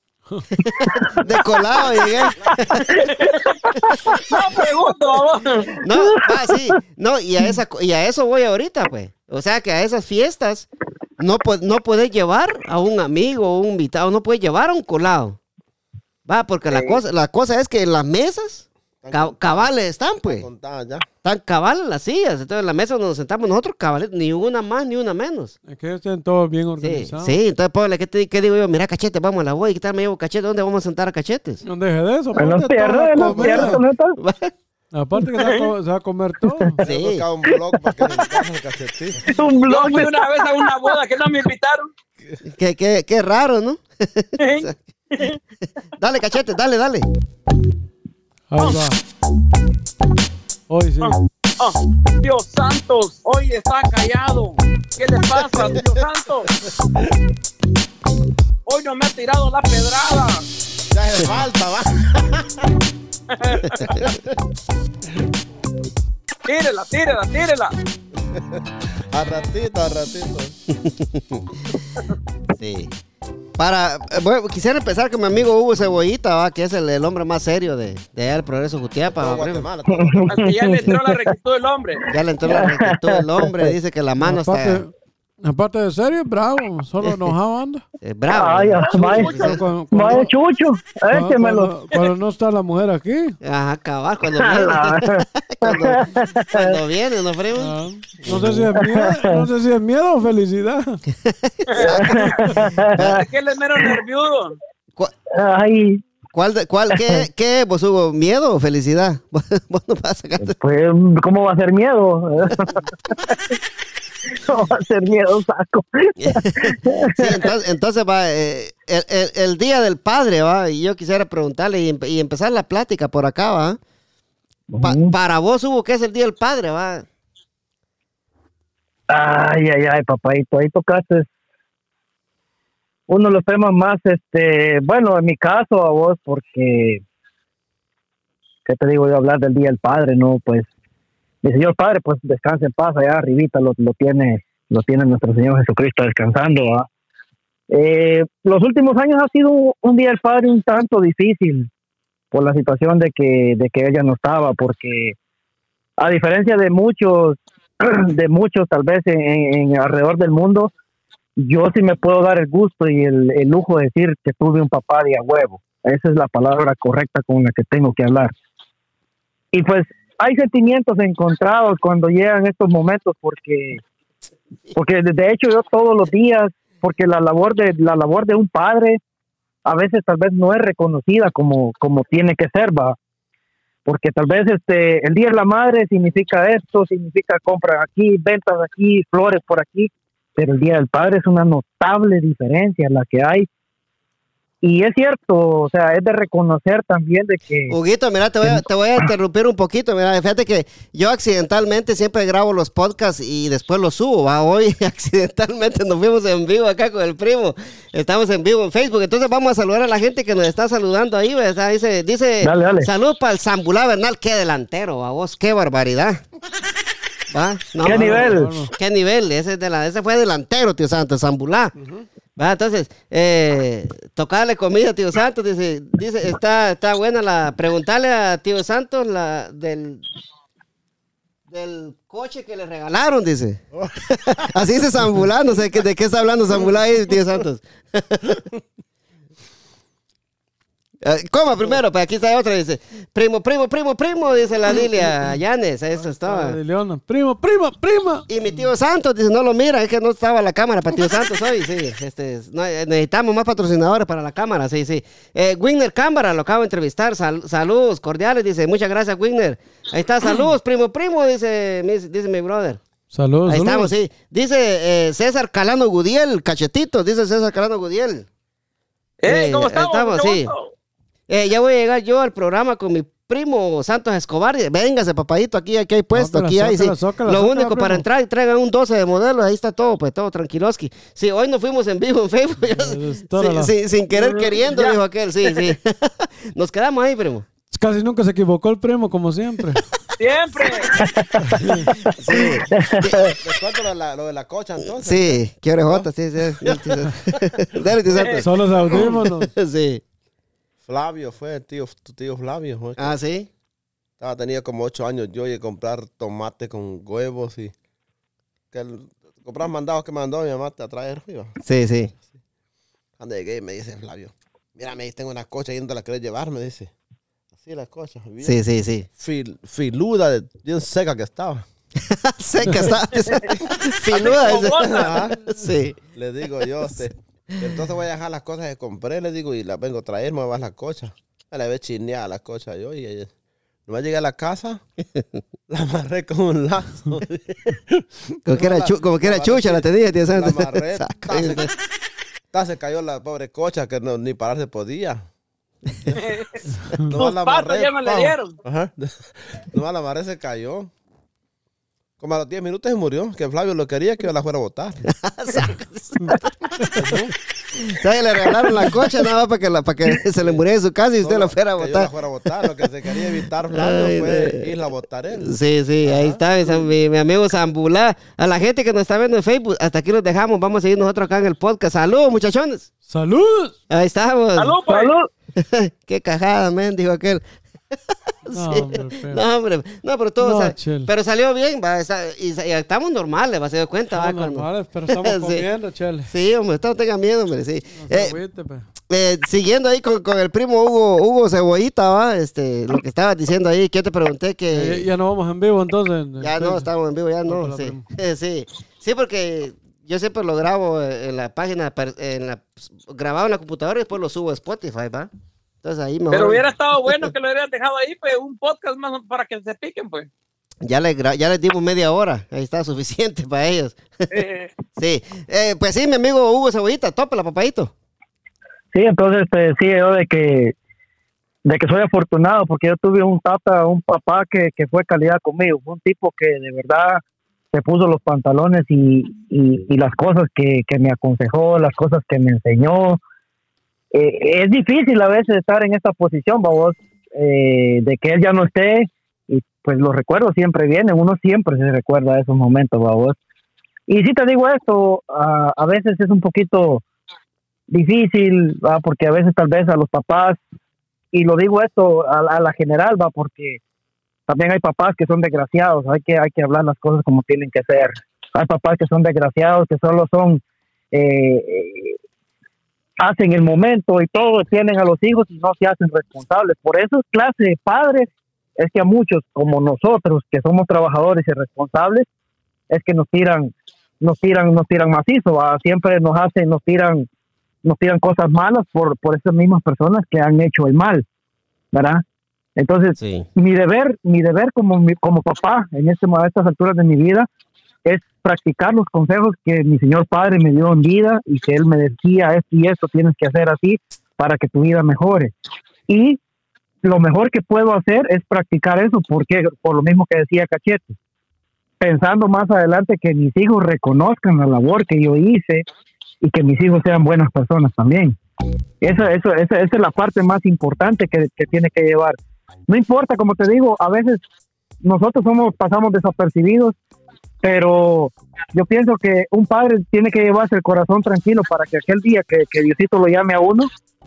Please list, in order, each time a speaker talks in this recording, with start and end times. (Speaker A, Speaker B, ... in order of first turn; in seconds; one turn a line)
Speaker A: 0.6-2.9
Speaker B: 2.0-2.5
Speaker C: 3.0-3.5
Speaker D: 3.0-4.4
Speaker C: 4.2-5.8
Speaker A: 5.8-10.7
Speaker D: 6.1-6.5
Speaker A: 11.2-15.4
Speaker A: 16.3-20.5
Speaker C: 16.7-17.0
Speaker B: 19.0-19.7
Speaker B: 20.2-21.1
Speaker A: 21.2-25.6
Speaker E: 25.7-27.4
Speaker A: 26.8-31.6
Speaker E: 31.7-33.8
Speaker D: 32.4-34.2
Speaker B: 33.3-33.7
Speaker A: 34.2-34.5
Speaker E: 34.9-36.8
Speaker B: 36.8-39.3
Speaker A: 36.9-37.2
Speaker D: 37.7-38.3
Speaker D: 39.3-40.7
Speaker C: 39.7-41.9
Speaker A: 42.5-44.8
Speaker C: 44.4-45.4
Speaker A: 46.0-47.1
Speaker E: 48.5-49.0
Speaker E: 50.7-51.2
Speaker C: 51.0-56.5
Speaker B: 55.6-55.9
Speaker C: 58.7-60.5
Speaker B: 60.9-62.7
Speaker C: 63.3-64.0
Speaker B: 63.8-64.3
Speaker C: 66.5-67.7
Speaker B: 69.1-70.6
Speaker A: 70.8-71.5
Speaker A: 72.6-72.9
Speaker A: 73.6-79.7
Speaker B: 79.2-80.5
Speaker D: 80.0-81.2
Speaker C: 80.3-82.0
Speaker A: 82.1-84.8
Speaker D: 82.5-83.7
Speaker E: 84.2-84.9
Speaker E: 85.4-87.8
Speaker A: 88.0-89.6
Speaker D: 88.3-91.7
Speaker C: 89.0-89.3
Speaker E: 89.2-90.3
Speaker E: 91.1-93.4
Speaker A: 93.4-98.7
Speaker D: 94.4-96.8
Speaker E: 97.6-101.0
Speaker D: 98.8-99.4
Speaker A: 101.2-102.2
Speaker C: 101.7-102.4
Speaker D: 101.8-103.2
Speaker A: 102.8-103.2
Speaker C: 102.9-104.6
Speaker D: 105.4-106.0
Speaker A: 106.3-110.5
Speaker D: 107.0-107.2
Speaker D: 110.4-113.4
Speaker D: 114.4-117.4
Speaker A: 116.2-123.8
Speaker D: 124.7-125.1
Speaker A: 124.8-127.1
Speaker D: 129.1-131.3
Speaker D: 133.1-137.0
Speaker D: 138.7-140.7
Speaker D: 141.4-146.9
Speaker D: 147.7-151.7
Speaker D: 152.3-155.2
Speaker D: 156.0-160.7
Speaker D: 161.4-168.3
Speaker D: 169.5-173.8
Speaker D: 174.8-179.0
Speaker D: 179.7-183.0
Speaker D: 183.9-193.5
Speaker D: 194.6-197.8
Speaker A: 197.7-216.2
Speaker D: 198.5-199.1
Speaker D: 212.4-212.9
Speaker A: 217.3-221.7
Speaker D: 217.8-218.5
Speaker E: 217.8-218.7
Speaker B: 221.8-222.1
Speaker A: 222.4-230.1
Speaker A: 231.5-238.4
Speaker A: 241.0-246.6
Speaker E: 246.0-248.6
Speaker A: 248.3-262.8
Speaker E: 263.1-263.9
Speaker A: 263.5-268.3
Speaker C: 269.2-270.7
Speaker A: 269.2-270.5
Speaker A: 271.3-287.5
Speaker E: 276.1-278.1
Speaker E: 282.7-283.7
Speaker C: 284.1-285.0
Speaker E: 287.7-289.8
Speaker C: 290.2-291.0
Speaker D: 291.0-293.4
Speaker E: 291.6-291.9
Speaker A: 292.1-293.2
Speaker B: 293.4-295.4
Speaker A: 294.8-300.0
Speaker B: 296.6-298.2
Speaker E: 298.4-299.5
Speaker B: 300.9-303.1
Speaker A: 303.0-303.5
Speaker B: 304.2-307.7
Speaker B: 308.7-311.5
Speaker A: 311.6-312.1
Speaker B: 313.2-316.9
Speaker B: 317.6-318.6
Speaker A: 318.4-319.1
Speaker B: 319.2-321.7
Speaker A: 322.1-326.0
Speaker C: 324.1-325.2
Speaker B: 324.2-325.6
Speaker B: 326.2-333.3
Speaker B: 333.9-334.8
Speaker B: 335.7-341.7
Speaker A: 338.5-341.7
Speaker B: 342.5-345.2
Speaker B: 345.9-346.2
Speaker C: 346.2-346.6
Speaker B: 347.0-350.9
Speaker C: 347.2-348.6
Speaker B: 352.2-355.1
Speaker A: 355.1-356.7
Speaker E: 356.2-357.1
Speaker B: 356.9-357.3
Speaker A: 357.9-362.7
Speaker B: 361.2-366.9
Speaker A: 363.7-364.8
Speaker A: 365.4-372.9
Speaker E: 373.1-373.8
Speaker A: 373.9-374.8
Speaker C: 374.6-375.1
Speaker D: 374.9-375.3
Speaker A: 375.6-377.4
Speaker A: 378.5-385.6
Speaker E: 378.5-379.4
Speaker E: 380.4-381.1
Speaker E: 384.1-386.3
Speaker A: 386.3-388.4
Speaker E: 387.9-388.9
Speaker A: 389.1-395.1
Speaker E: 394.7-396.9
Speaker A: 396.4-405.3
Speaker E: 397.5-398.1
Speaker A: 405.8-407.3
Speaker C: 406.3-410.3
Speaker A: 410.8-414.3
Speaker C: 414.3-414.7
Speaker A: 415.0-417.9
Speaker D: 418.9-420.8
Speaker D: 421.6-427.2
Speaker D: 427.7-433.2
Speaker D: 434.1-443.4
Speaker D: 444.1-447.0
Speaker D: 447.9-450.6
Speaker D: 451.3-453.8
Speaker D: 454.5-460.6
Speaker D: 461.1-462.2
Speaker D: 463.2-472.3
Speaker D: 472.9-477.3
Speaker D: 477.9-481.2
Speaker D: 481.9-482.2
Speaker D: 482.8-487.5
Speaker A: 483.2-483.5
Speaker D: 488.1-495.5
Speaker D: 496.1-496.4
Speaker D: 497.0-501.2
Speaker D: 502.0-505.9
Speaker D: 506.4-508.4
Speaker D: 509.0-512.4
Speaker D: 512.9-514.4
Speaker D: 515.0-517.0
Speaker D: 517.6-523.9